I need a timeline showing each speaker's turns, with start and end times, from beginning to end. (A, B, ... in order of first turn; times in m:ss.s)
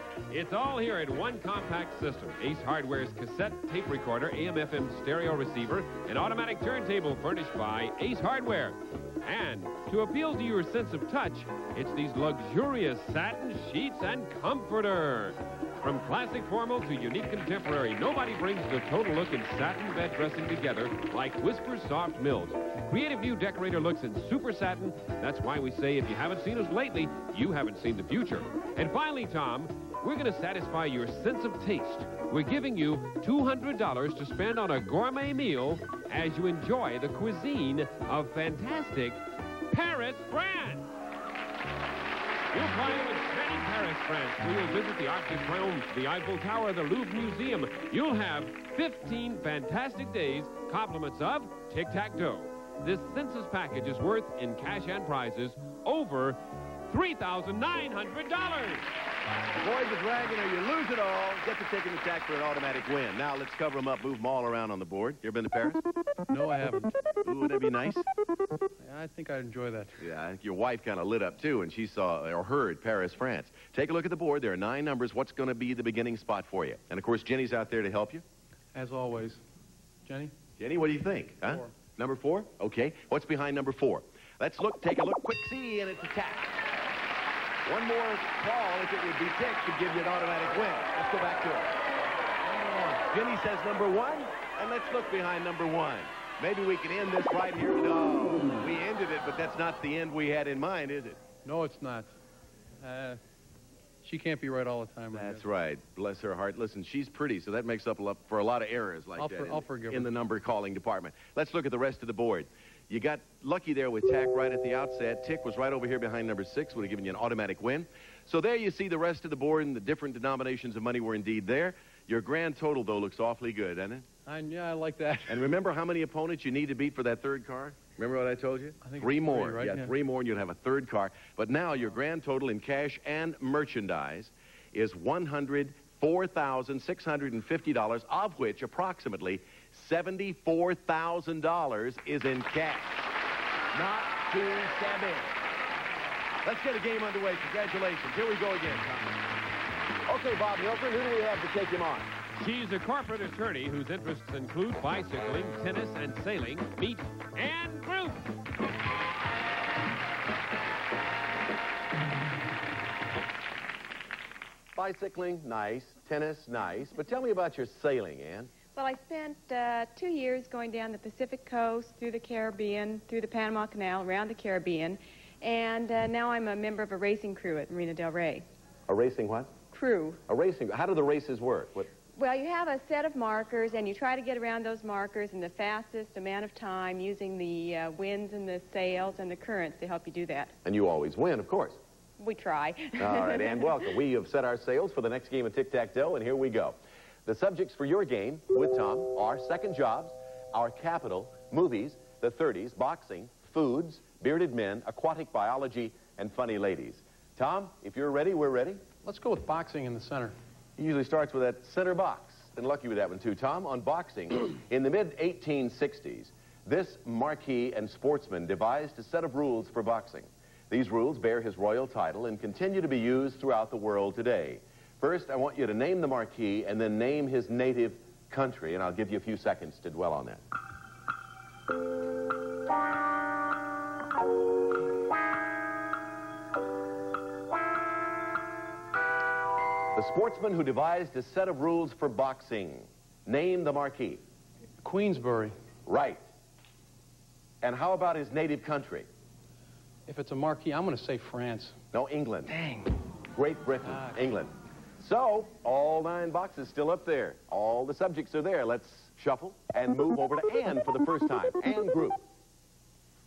0:00.3-0:39.2 A
0:39.7-0:40.9 A
0:42.5-0:58.8 A
0:59.6-1:05.8 B
1:06.3-1:07.0 C
1:07.2-1:08.0 B
1:08.8-1:10.0 C
1:10.0-1:18.2 B
1:18.7-1:19.4 C
1:20.0-1:20.3 C
1:20.6-1:26.6 B
1:27.6-1:31.7 B
1:32.6-1:33.0 C
1:32.8-1:41.2 B
1:41.4-1:42.1 C
1:42.8-1:43.2 C
1:44.0-1:45.4 C
1:45.1-2:04.0 B
1:49.2-1:50.1 C
2:04.2-2:05.5 C
2:05.3-2:23.1 B
2:08.8-2:09.9 C
2:23.7-2:25.3 B
2:26.4-2:29.2 B
2:30.1-2:32.1 B
2:32.4-2:38.3 A
2:44.7-2:48.5 B
2:48.7-2:58.4 D
2:58.9-2:59.6 B
2:59.7-3:00.2 D
3:00.3-3:01.9 B
3:02.2-3:10.5 D
3:10.6-3:11.8 B
3:12.2-3:14.0 D
3:13.0-3:28.8 B
3:29.0-3:30.3 C
3:30.8-3:50.4 B
3:59.9-4:04.2 B
4:04.8-4:05.5 C
4:05.8-4:06.2 B
4:07.6-4:09.1 B
4:10.1-4:11.8 C
4:11.9-4:12.5 B
4:12.5-4:12.9 C
4:13.3-4:22.2 B
4:13.8-4:14.2 C